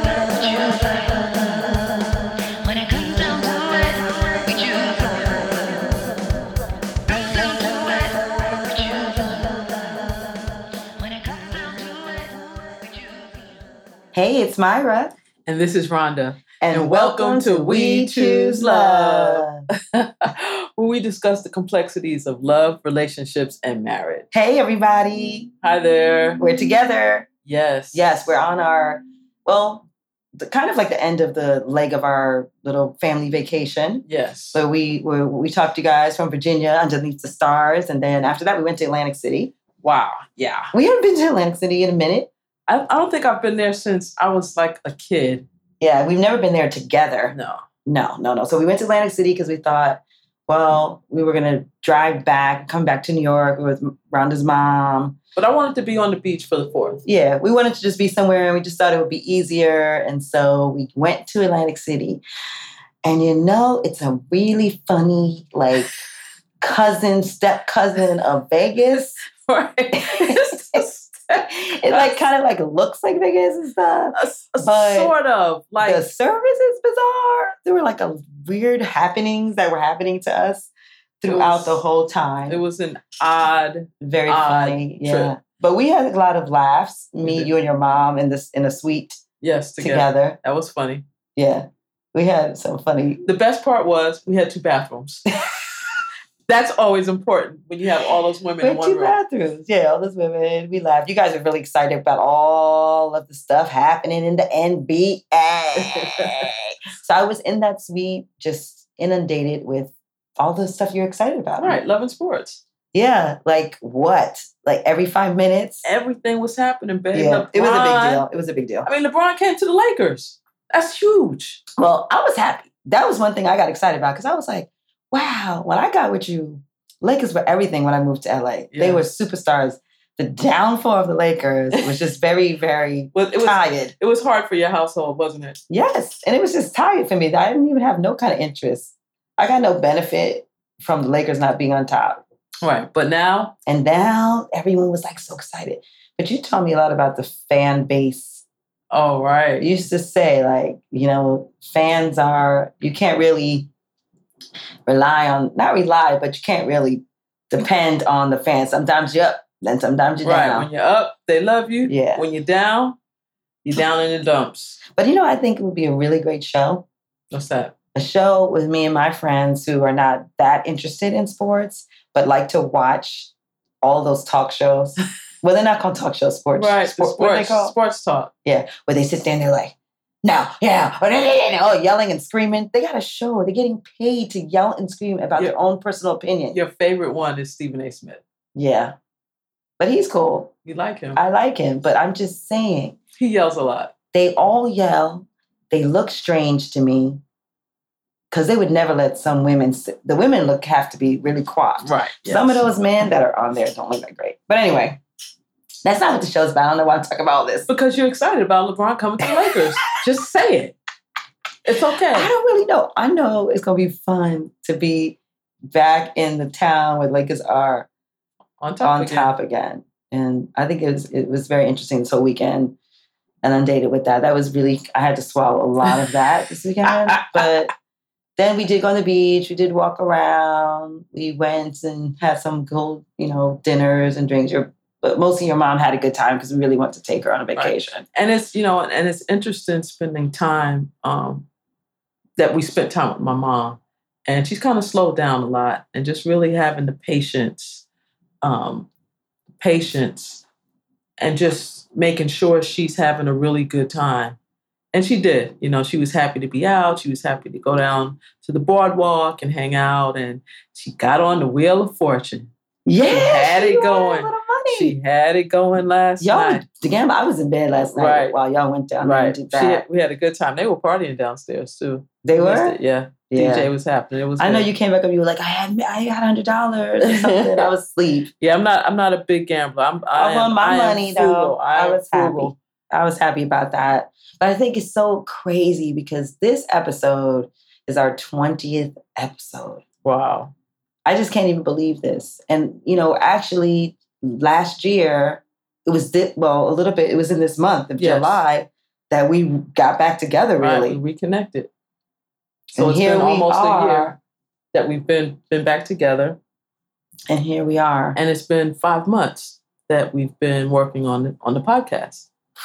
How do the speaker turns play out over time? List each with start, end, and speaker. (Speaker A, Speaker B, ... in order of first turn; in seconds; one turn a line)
Speaker A: 0.4-1.1
Speaker A: 2.8-3.9
Speaker A: 9.0-9.5
Speaker A: 14.1-15.1
Speaker B: 15.4-24.3
Speaker A: 16.6-19.6
Speaker A: 24.3-25.5
Speaker B: 25.6-26.4
Speaker A: 26.4-27.3
Speaker B: 27.4-28.2
Speaker A: 27.9-29.9
Speaker A: 30.4-39.5
Speaker B: 34.1-34.6
Speaker B: 39.8-40.7
Speaker A: 40.7-42.3
Speaker B: 42.7-45.5
Speaker A: 45.8-55.2
Speaker B: 47.3-47.6
Speaker B: 55.4-57.0
Speaker A: 57.0-62.2
Speaker A: 63.0-65.9
Speaker A: 66.6-69.2
Speaker B: 69.3-72.2
Speaker A: 70.0-70.8
Speaker A: 71.5-75.1
Speaker B: 74.2-76.0
Speaker A: 75.8-82.6
Speaker B: 81.3-81.8
Speaker B: 82.5-85.3
Speaker A: 84.0-89.2
Speaker B: 87.2-87.5
Speaker B: 89.4-91.0
Speaker A: 89.8-90.4
Speaker A: 91.4-93.2
Speaker B: 93.2-95.3
Speaker B: 96.5-99.2
Speaker A: 98.6-111.8
Speaker B: 105.8-106.5
Speaker B: 111.6-112.6
Speaker A: 112.9-115.8
Speaker B: 115.8-118.3
Speaker A: 117.1-118.9
Speaker B: 118.8-121.6
Speaker A: 121.8-133.9
Speaker B: 128.7-129.0
Speaker B: 133.1-135.6
Speaker A: 135.7-142.2
Speaker B: 142.6-143.6
Speaker A: 143.7-148.4
Speaker B: 148.9-149.7
Speaker A: 149.6-153.7
Speaker A: 154.8-160.7
Speaker B: 160.2-163.0
Speaker A: 161.8-162.2
Speaker B: 163.7-164.8
Speaker A: 164.9-166.8
Speaker B: 167.3-167.8
Speaker A: 167.9-173.3
Speaker A: 173.8-177.7
Speaker B: 176.6-178.3
Speaker A: 178.4-186.6
Speaker B: 186.5-188.2
Speaker A: 188.6-189.0
Speaker A: 189.8-190.5
Speaker B: 190.7-191.2
Speaker A: 191.2-193.0
Speaker B: 193.2-193.9
Speaker A: 194.1-197.2
Speaker A: 198.3-205.0
Speaker B: 201.8-202.7
Speaker A: 205.8-207.7
Speaker B: 207.7-210.8
Speaker B: 211.7-212.3
Speaker A: 212.1-215.2
Speaker A: 215.7-217.9
Speaker B: 218.6-219.3
Speaker A: 218.8-222.8
Speaker A: 223.4-227.7
Speaker B: 227.1-227.4
Speaker A: 228.4-238.0
Speaker B: 237.6-241.5
Speaker B: 242.4-247.8
Speaker B: 248.4-248.9
Speaker B: 249.6-250.5
Speaker B: 251.2-254.4
Speaker B: 254.9-262.5
Speaker A: 262.9-264.9
Speaker B: 263.0-266.6
Speaker A: 266.2-269.8
Speaker B: 267.9-268.4
Speaker B: 269.0-274.7
Speaker A: 272.2-272.8
Speaker A: 273.3-273.7
Speaker A: 274.4-278.3
Speaker B: 277.0-277.6
Speaker B: 278.4-282.5
Speaker A: 280.1-289.8
Speaker B: 290.0-290.5
Speaker A: 291.1-301.0
Speaker B: 298.0-298.4
Speaker B: 300.6-301.7
Speaker A: 302.7-304.1
Speaker B: 302.8-304.2
Speaker B: 304.7-306.4
Speaker A: 307.3-308.2
Speaker B: 308.1-312.3